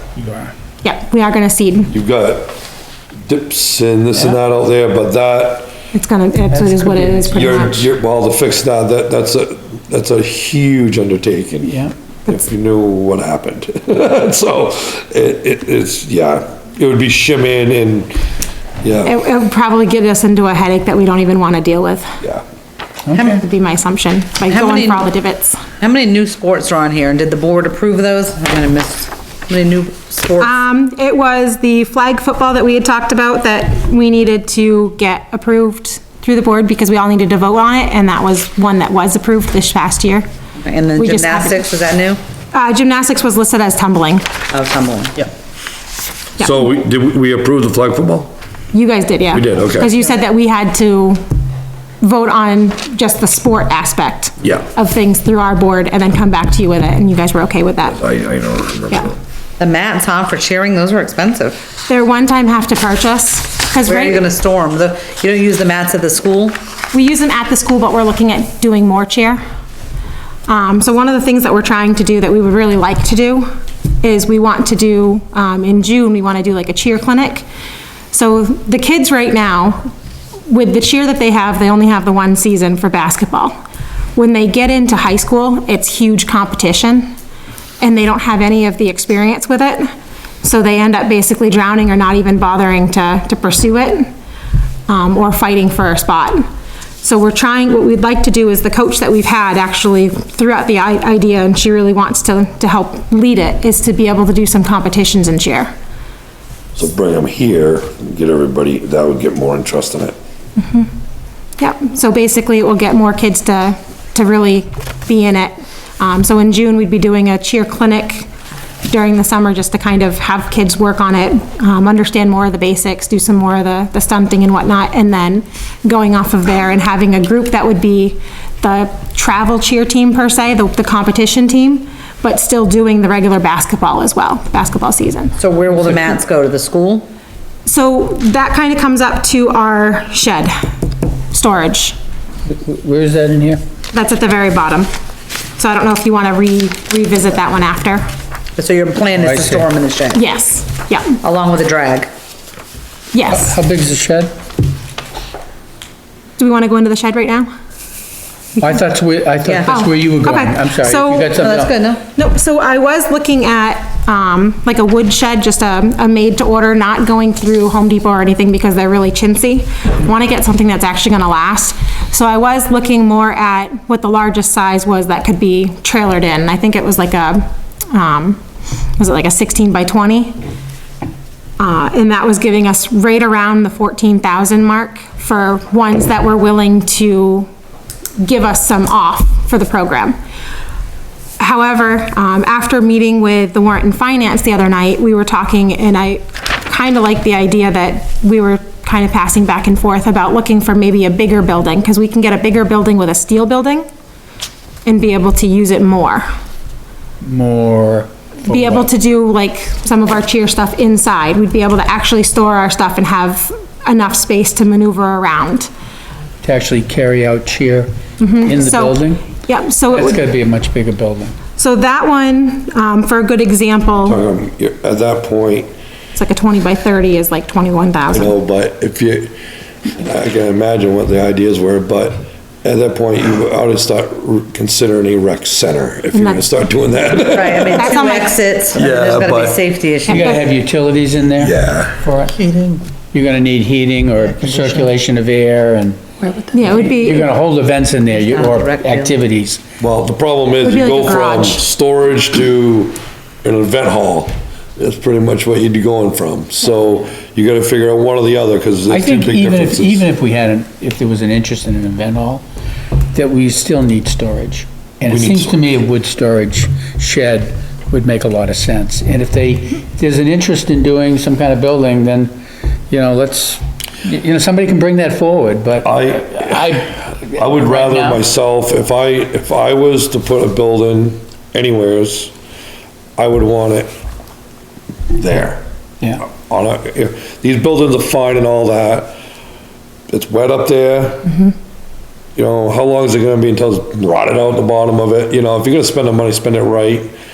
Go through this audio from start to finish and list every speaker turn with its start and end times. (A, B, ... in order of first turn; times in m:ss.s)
0:00.2-0:00.5 A
0:00.8-0:01.9 B
0:01.9-0:02.5 C
0:03.2-0:05.7 C
0:05.9-0:07.8 B
0:06.6-0:07.4 A
0:07.3-0:18.1 C
0:11.6-0:11.9 A
0:18.8-0:19.1 C
0:19.0-0:22.2 B
0:23.1-0:23.4 A
0:23.1-0:23.4 D
0:23.2-0:25.6 B
0:24.5-0:25.1 D
0:25.8-0:30.6 D
0:30.4-0:40.2 B
0:40.6-0:42.2 D
0:41.0-0:41.6 B
0:42.5-0:44.3 B
0:44.5-0:45.3 D
0:46.4-0:48.3 C
0:48.7-0:51.2 B
0:49.3-0:49.9 C
0:52.0-0:58.0 B
0:57.9-0:59.2 C
0:59.6-1:01.6 D
1:01.9-1:04.2 B
1:03.8-1:06.6 D
1:06.9-1:09.4 B
1:10.5-1:13.5 B
1:14.0-1:17.4 B
1:18.1-1:19.9 B
1:20.5-1:23.5 B
1:24.2-1:27.1 B
1:27.8-1:29.9 B
1:30.4-1:34.1 B
1:34.9-1:36.4 B
1:37.0-1:45.7 B
1:46.8-1:50.1 C
1:50.6-1:50.9 B
1:51.6-1:58.3 B
1:58.9-2:15.3 B
2:15.4-2:17.1 D
2:17.6-2:20.6 B
2:21.3-2:22.0 B
2:22.5-2:23.6 A
2:23.9-2:24.9 B
2:25.6-2:28.0 B
2:28.6-2:30.2 D
2:29.2-2:29.7 A
2:30.1-2:31.2 B
2:31.2-2:32.1 D
2:33.1-2:33.5 B
2:33.3-2:34.3 A
2:36.4-2:37.5 B
2:38.6-2:41.7 A
2:39.7-2:41.4 B
2:41.3-2:42.0 D
2:42.1-2:58.4 B
2:59.0-3:00.4 B
3:01.6-3:07.5 B
3:08.2-3:10.2 B
3:11.4-3:23.9 B
3:24.8-3:26.3 B
3:27.2-3:28.8 A
3:28.4-3:35.7 B
3:36.4-3:37.9 A
3:38.2-3:40.2 B
3:38.5-3:39.1 A
3:40.1-3:41.2 A
3:41.6-3:44.2 B
3:44.0-3:45.7 C
3:46.1-3:48.3 B
3:48.1-3:49.4 C
3:50.0-3:58.0 C
3:56.1-3:56.4 B
3:57.3-4:00.4 D
3:57.8-3:58.4 B
3:58.7-3:59.6 C
4:00.1-4:02.3 A
4:01.4-4:02.0 C
4:02.3-4:02.8 D
4:03.1-4:06.0 A
4:04.4-4:04.9 D
4:06.2-4:06.5 D
4:06.5-4:07.3 B
4:06.9-4:09.6 A
4:08.1-4:09.2 D
4:09.8-4:20.0 C
4:10.6-4:11.6 B
4:18.9-4:22.4 A
4:23.1-4:32.3 A
4:25.1-4:25.6 C
4:32.9-4:35.9 A
4:35.8-4:36.8 C
4:36.4-4:38.2 A
4:37.4-4:42.3 C
4:43.2-4:43.9 C
4:45.1-4:45.6 C
4:46.2-4:49.2 C
4:50.1-4:51.4 C
4:52.4-4:57.1 C